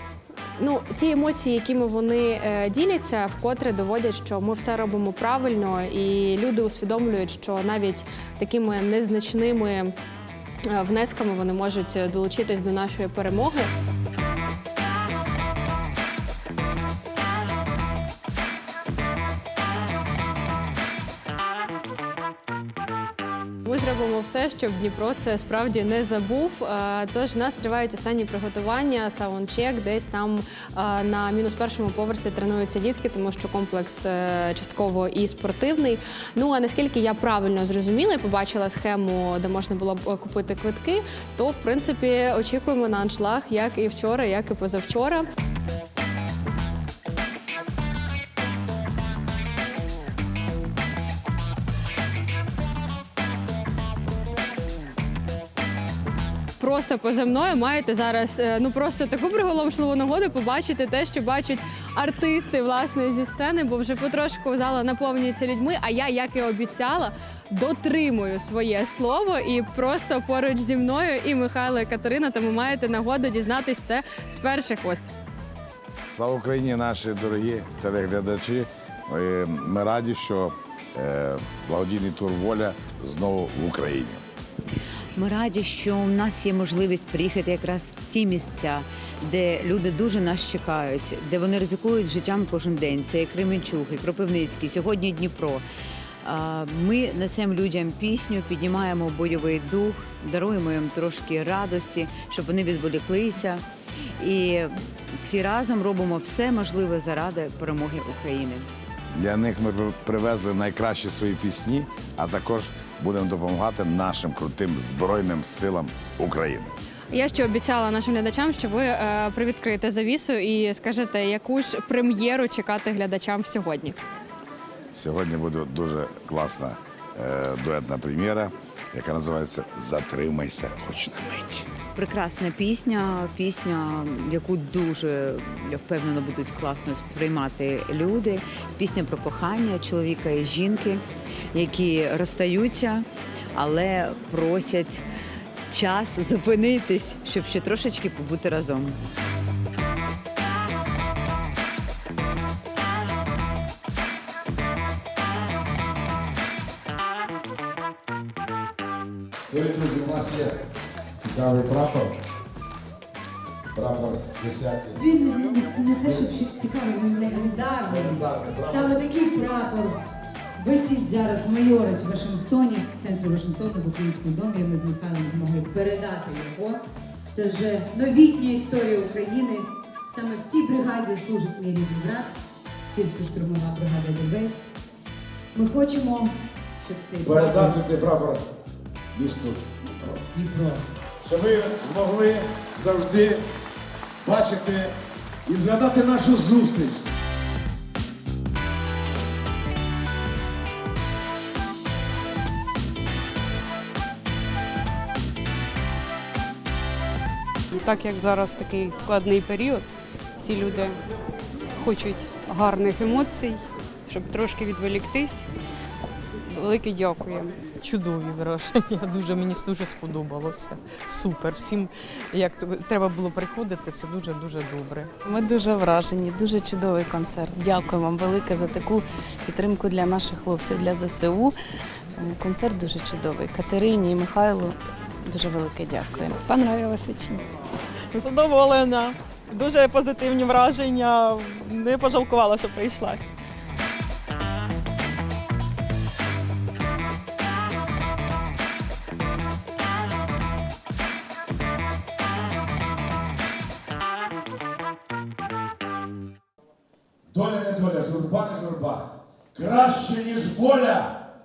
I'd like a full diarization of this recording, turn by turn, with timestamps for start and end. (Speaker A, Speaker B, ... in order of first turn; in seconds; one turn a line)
Speaker A: 0.6-9.9
Speaker A: 10.7-13.7
Speaker A: 23.7-45.3
Speaker A: 56.6-75.1
Speaker B: 76.1-84.2
Speaker C: 85.2-95.6
Speaker C: 96.2-103.6
Speaker C: 104.2-108.7
Speaker B: 109.1-116.7
Speaker A: 117.1-124.0
Speaker B: 124.9-131.4
Speaker D: 129.2-129.9
Speaker D: 130.5-131.6
Speaker C: 131.9-141.0
Speaker C: 141.5-145.0
Speaker C: 145.7-149.0
Speaker B: 159.5-160.4
Speaker D: 159.9-160.4
Speaker B: 161.2-162.1
Speaker D: 161.6-162.0
Speaker B: 163.8-164.9
Speaker D: 163.8-164.8
Speaker E: 165.0-170.0
Speaker B: 167.9-168.9
Speaker E: 170.6-182.3
Speaker E: 182.9-184.7
Speaker E: 185.5-187.8
Speaker D: 187.3-188.4
Speaker B: 187.4-187.8
Speaker D: 189.2-189.6
Speaker E: 190.3-190.8
Speaker D: 191.3-193.4
Speaker D: 194.2-194.9
Speaker D: 195.5-197.1
Speaker F: 207.8-211.0
Speaker F: 211.8-215.5
Speaker F: 216.5-217.7
Speaker G: 217.8-225.1
Speaker H: 225.3-231.6
Speaker H: 232.2-236.7
Speaker I: 238.1-243.2
Speaker D: 257.3-261.2
Speaker B: 259.6-260.1